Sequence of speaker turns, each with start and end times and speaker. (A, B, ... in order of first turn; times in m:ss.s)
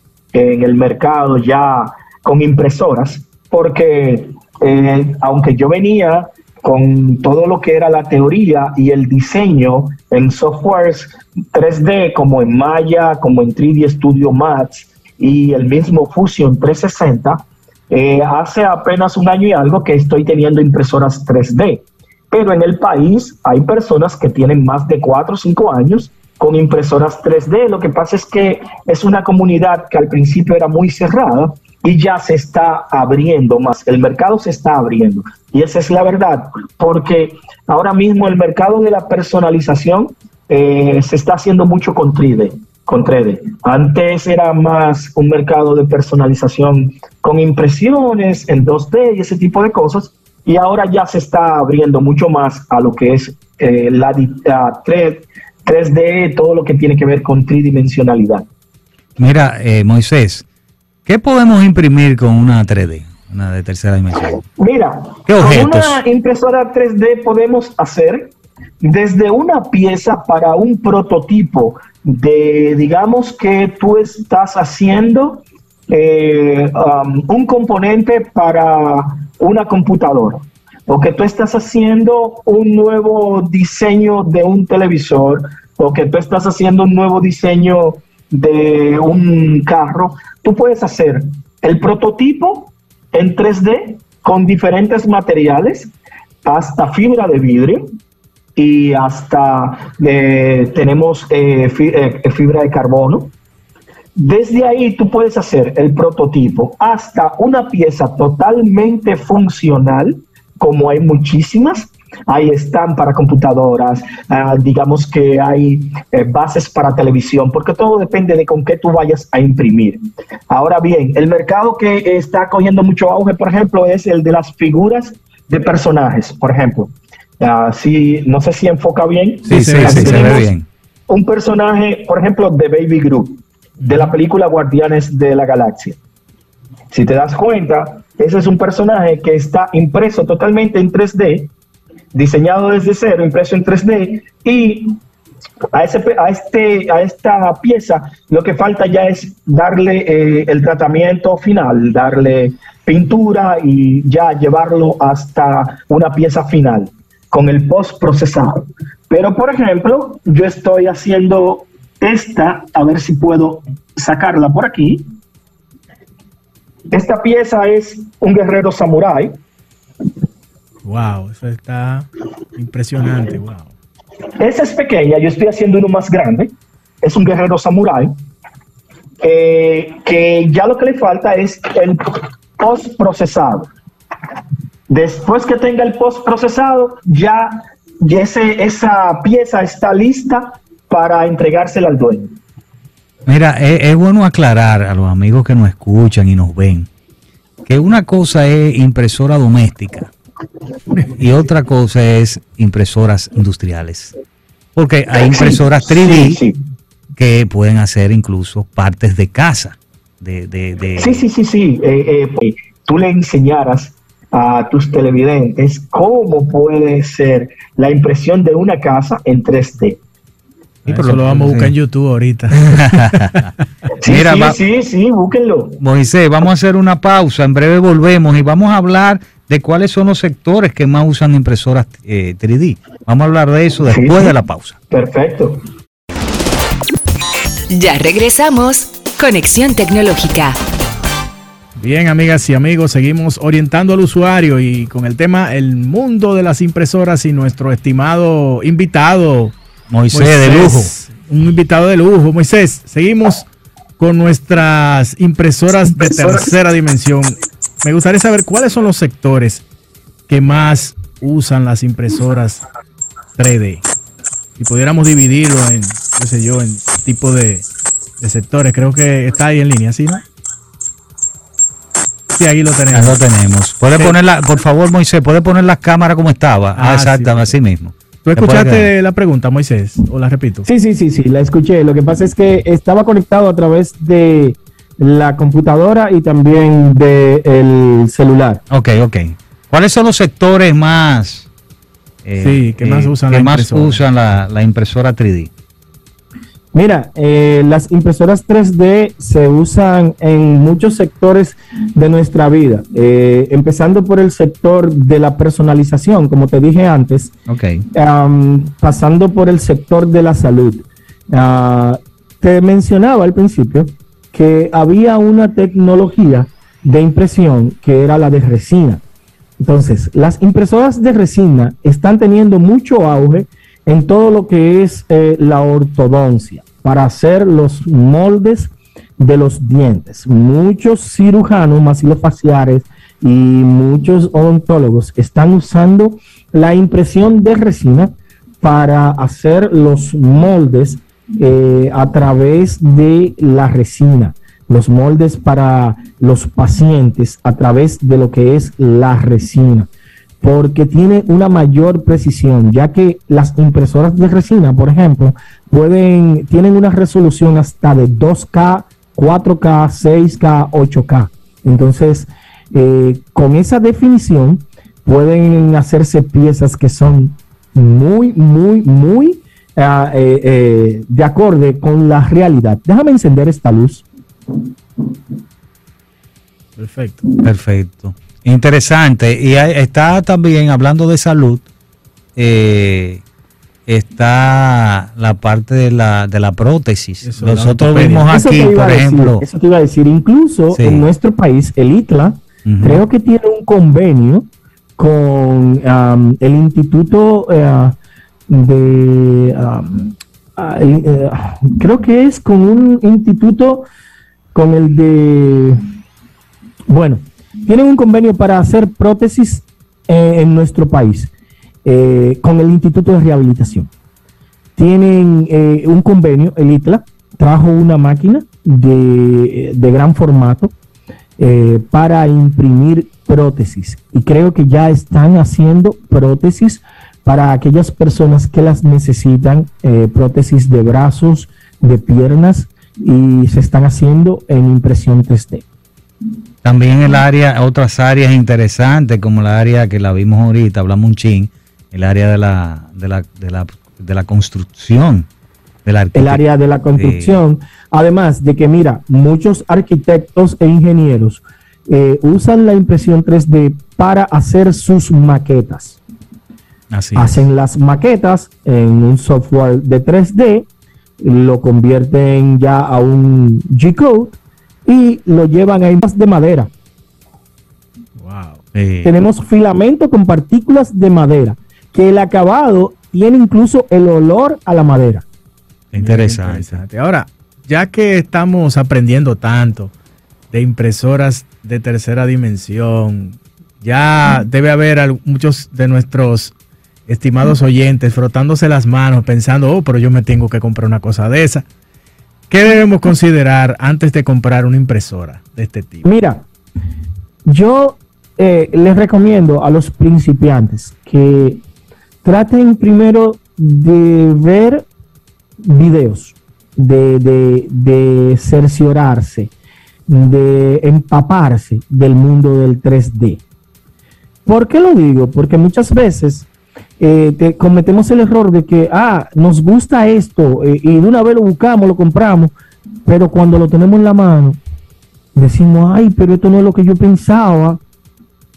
0:00.3-0:58.5 A
0:59.2-1:00.4 B
1:01.1-1:04.4 B
1:04.6-1:35.9 A
1:05.3-1:06.0 B
1:36.4-1:37.9 A
1:38.6-1:43.3 A
1:44.2-2:10.5 A
2:09.5-2:10.5 C
2:09.5-2:10.7 B
2:11.1-2:16.0 A
2:13.8-2:14.1 C
2:16.9-2:21.5 A
2:22.1-2:25.0 A
2:25.7-2:45.1 A
2:46.9-2:49.4 A
2:50.8-2:53.7 C
2:54.4-2:58.1 A
2:59.2-3:03.7 A
3:04.9-3:12.4 A
3:13.3-3:16.9 B
3:17.7-3:20.1 B
3:21.1-3:24.1 B
3:24.8-3:26.4 B
3:25.1-3:26.6 A
3:27.2-3:31.2 B
3:31.0-3:40.0 A
3:40.8-3:43.4 C
3:40.9-3:41.7 B
3:42.6-3:43.5 B
3:44.0-3:45.8 A
3:44.0-3:44.6 B
3:45.8-3:54.8 B
3:53.9-3:54.4 A
3:54.9-3:55.6 A
3:57.7-4:00.6 D
4:01.8-4:09.6 C
4:09.9-4:10.9 B
4:10.1-4:13.5 C
4:14.0-4:19.6 C
4:20.3-4:22.6 C
4:23.4-4:23.9 C
4:24.6-4:27.7 C
4:28.2-4:30.2 C
4:32.4-4:33.2 C
4:32.9-4:38.9 B
4:36.8-4:37.6 C
4:38.2-4:40.7 C
4:40.6-4:48.6 E
4:48.7-4:51.5 B
4:52.2-4:55.5 B
4:52.4-4:54.0 C
4:56.7-5:07.3 E
5:07.5-5:07.8 B
5:07.9-5:19.0 E
5:19.6-5:49.9 E
5:50.4-6:14.1 E
6:16.8-6:17.2 C
6:17.4-6:21.7 B
6:22.4-6:23.2 B
6:23.9-6:29.4 B
6:27.2-6:28.3 C
6:28.3-6:38.0 E
6:30.7-6:31.1 B
6:32.6-6:33.0 B
6:38.5-6:43.9 E
6:44.5-6:45.8 E
6:46.9-6:51.3 E
6:51.8-6:53.9 E
6:54.8-7:00.7 E
7:01.4-7:15.6 E
7:16.6-7:25.3 B
7:25.8-7:26.4 B
7:26.2-7:36.0 E
7:27.0-7:27.4 B
7:36.9-7:37.5 B
7:37.2-7:40.7 E
7:41.2-7:46.7 E
7:48.2-7:48.6 C
7:48.7-7:49.1 B
7:49.0-7:55.2 E
7:55.9-7:56.8 B
7:56.0-7:59.9 C
8:00.5-8:06.5 C
8:07.1-8:11.7 C
8:12.5-8:16.1 C
8:16.0-8:16.5 E
8:17.5-8:21.6 E
8:22.2-8:24.9 E
8:25.6-8:29.5 E
8:30.1-8:33.4 E
8:34.5-8:36.5 E
8:37.0-8:44.6 E
8:45.4-8:47.8 E